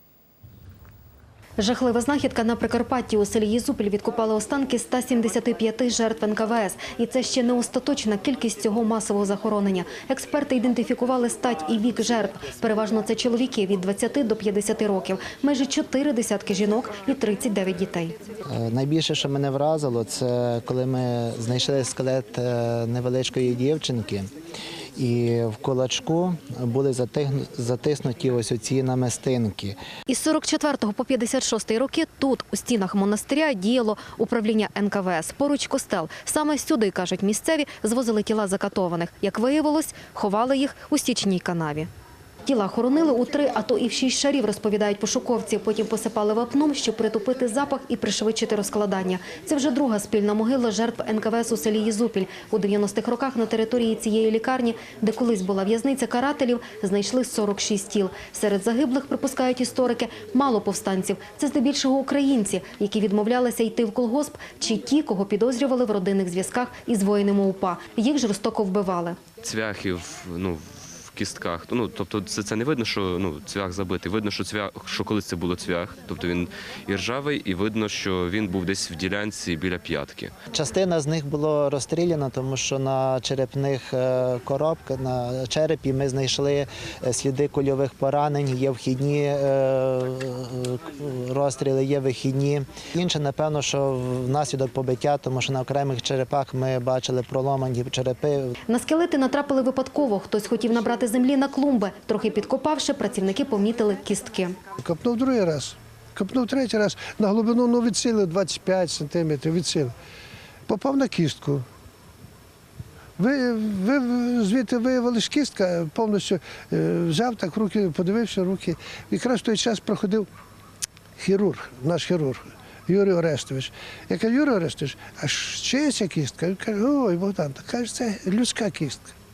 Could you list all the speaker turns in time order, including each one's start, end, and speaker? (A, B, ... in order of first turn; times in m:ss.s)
0:01.6-0:18.2 A
0:18.5-0:24.3 B
0:25.0-0:29.8 B
0:30.1-0:41.9 A
0:42.4-1:09.2 A
1:09.4-1:20.3 C
1:20.5-1:38.6 B
1:38.7-1:44.6 A
1:44.8-1:49.9 D
1:50.7-1:51.6 D
1:53.2-2:00.3 D
2:01.2-2:09.1 D